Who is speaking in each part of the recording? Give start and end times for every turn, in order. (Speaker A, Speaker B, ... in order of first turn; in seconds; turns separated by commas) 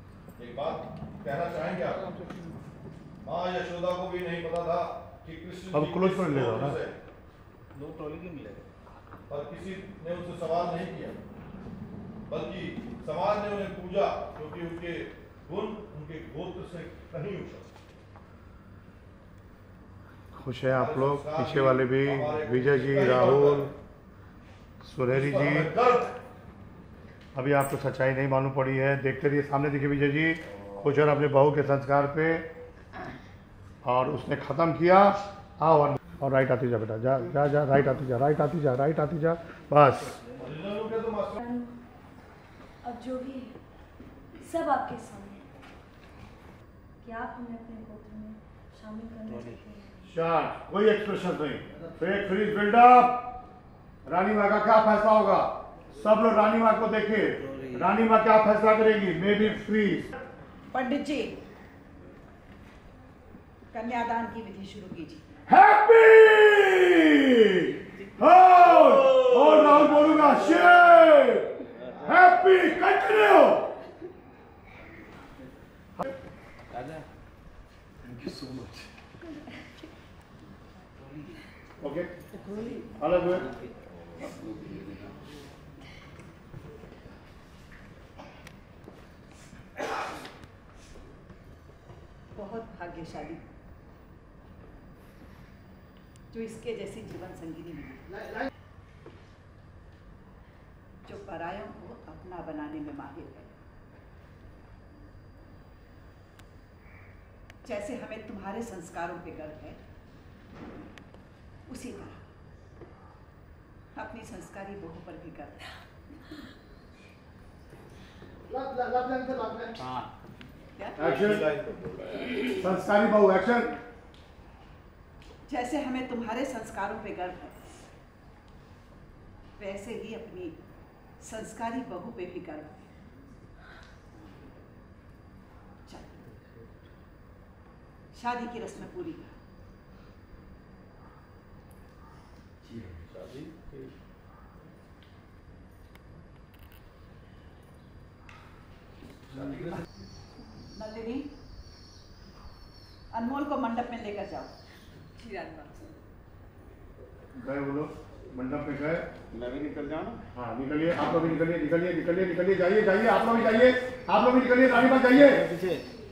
Speaker A: 0.4-2.1, Speaker A: 3.2-6.9, Speaker B: 5.7-6.8, Speaker C: 7.7-8.6, Speaker A: 9.3-11.2, Speaker A: 12.3-17.7, Speaker B: 20.3-23.7, Speaker A: 20.7-23.7, Speaker B: 24.8-25.7, Speaker A: 25.1-26.1, Speaker B: 27.3-32.5, Speaker B: 33.8-40.2, Speaker A: 40.4-41.4, Speaker D: 42.9-43.5, Speaker D: 44.4-45.4, Speaker D: 47.0-49.9, Speaker B: 50.0-53.4, Speaker B: 54.0-60.0, Speaker E: 60.7-61.4, Speaker E: 63.7-65.2, Speaker B: 65.5-73.7, Speaker C: 78.1-78.7, Speaker B: 81.8-82.1, Speaker B: 82.7-83.5, Speaker E: 92.3-93.4, Speaker E: 96.3-98.4, Speaker E: 101.0-103.5, Speaker E: 107.6-109.8, Speaker E: 111.7-112.2, Speaker E: 113.9-115.7, Speaker B: 118.7-119.6, Speaker E: 120.8-121.1, Speaker A: 121.0-122.6, Speaker B: 121.0-121.5, Speaker B: 122.5-123.8, Speaker E: 125.5-127.6, Speaker E: 129.6-130.6, Speaker E: 131.2-132.9, Speaker E: 135.8-136.3, Speaker E: 138.1-139.3, Speaker C: 143.2-143.7, Speaker E: 150.7-151.3, Speaker E: 153.1-154.5, Speaker E: 155.2-155.9, Speaker B: 157.3-159.0, Speaker C: 159.3-160.2, Speaker B: 160.3-165.5